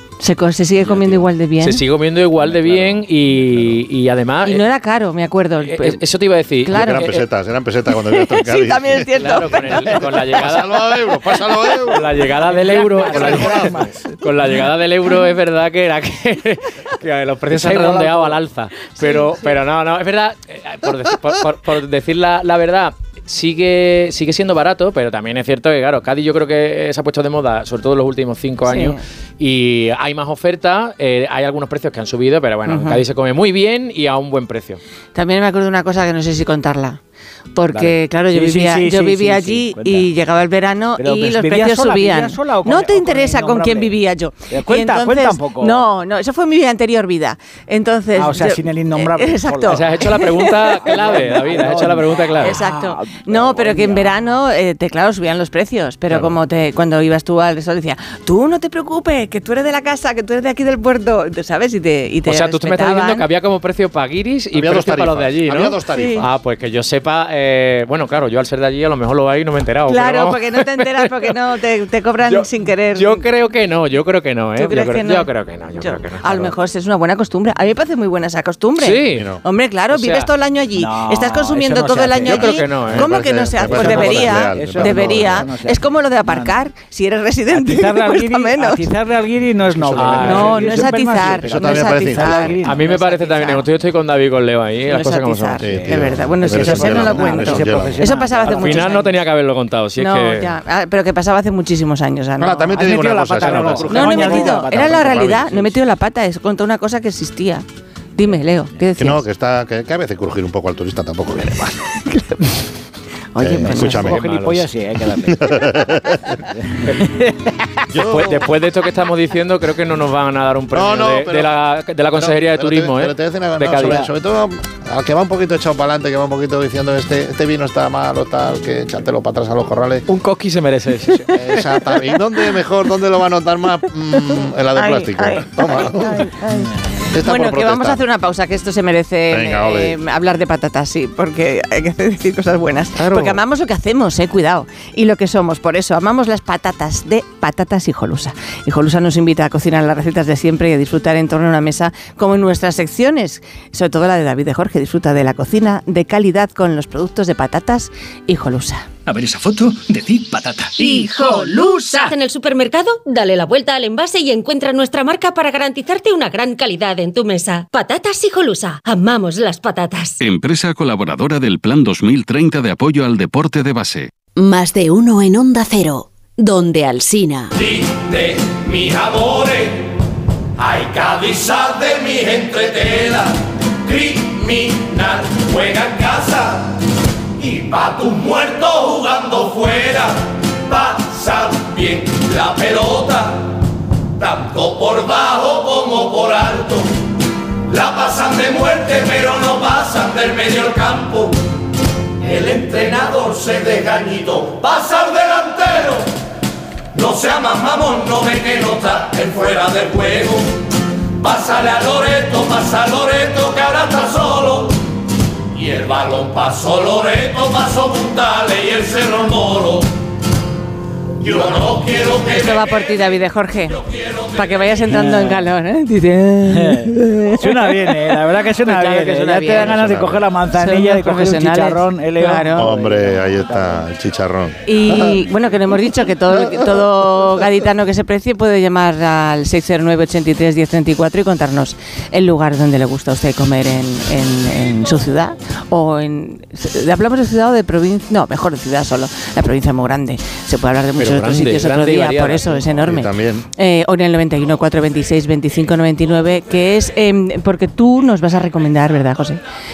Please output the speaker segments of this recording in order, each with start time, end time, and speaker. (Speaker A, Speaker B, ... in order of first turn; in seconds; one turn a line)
Speaker A: 0.2-1.8
Speaker B: 0.8-4.7
Speaker C: 2.5-3.7
Speaker A: 4.4-6.0
Speaker B: 5.6-7.2
Speaker A: 6.6-7.1
Speaker C: 6.7-12.1
Speaker A: 8.0-9.9
Speaker B: 9.1-11.0
Speaker B: 11.9-34.8
Speaker D: 12.5-14.1
Speaker C: 13.0-13.9
Speaker D: 17.5-18.4
Speaker A: 28.6-29.0
Speaker A: 32.6-33.0
Speaker A: 35.1-37.0
Speaker A: 37.5-51.2
Speaker D: 37.7-40.1
Speaker D: 41.0-43.9
Speaker D: 44.5-45.8
Speaker D: 48.1-54.1
Speaker B: 49.7-52.6
Speaker A: 52.4-63.2
Speaker C: 56.1-56.4
Speaker B: 62.2-71.3
Speaker C: 64.5-66.3
Speaker A: 65.9-66.2
Speaker A: 69.9-73.3
Speaker B: 72.2-76.5
Speaker A: 74.5-88.8
Speaker B: 78.8-79.3
Speaker C: 79.1-79.4
Speaker B: 79.9-80.3
Speaker D: 80.8-82.5
Speaker C: 82.3-85.5
Speaker B: 82.3-83.1
Speaker D: 83.6-86.5
Speaker D: 87.5-92.9
Speaker B: 89.9-90.9
Speaker A: 90.2-93.7
Speaker C: 91.5-92.5
Speaker B: 92.6-95.6
Speaker A: 94.9-99.1
Speaker D: 95.6-99.0
Speaker C: 95.6-98.0
Speaker B: 98.5-100.5
Speaker A: 100.0-102.9
Speaker C: 102.4-105.6
Speaker D: 102.8-105.7
Speaker B: 103.4-104.4
Speaker A: 103.9-109.2
Speaker C: 109.0-111.8
Speaker A: 112.0-112.4
Speaker A: 113.3-114.1
Speaker C: 113.4-114.2
Speaker D: 113.6-115.7
Speaker B: 114.0-114.7
Speaker C: 115.2-116.4
Speaker D: 116.5-117.5
Speaker C: 117.9-118.4
Speaker B: 118.0-124.0
Speaker C: 120.7-121.5
Speaker C: 122.1-130.1
Speaker D: 123.8-124.1
Speaker B: 130.1-131.6
Speaker C: 131.2-136.3
Speaker A: 134.1-158.9
Speaker C: 137.1-138.0
Speaker C: 139.3-140.0
Speaker C: 143.0-143.3
Speaker E: 159.1-162.1
Speaker F: 160.8-170.2
Speaker G: 170.2-174.1
Speaker H: 174.4-177.5
Speaker I: 177.6-179.9
Speaker I: 180.6-186.8
Speaker I: 187.4-193.6
Speaker I: 194.2-196.9
Speaker I: 197.7-201.4
Speaker I: 202.2-206.1
Speaker I: 206.9-210.6
Speaker I: 211.2-214.8
Speaker I: 215.5-219.9
Speaker I: 221.2-222.8
Speaker A: 222.2-223.8
Speaker A: 224.3-229.8
Speaker D: 224.9-225.4
Speaker D: 226.4-233.8
Speaker C: 229.6-230.2
Speaker A: 230.5-232.7
Speaker C: 232.6-235.2
Speaker A: 234.7-259.4
Speaker B: 251.0-252.7
Speaker C: 252.8-253.5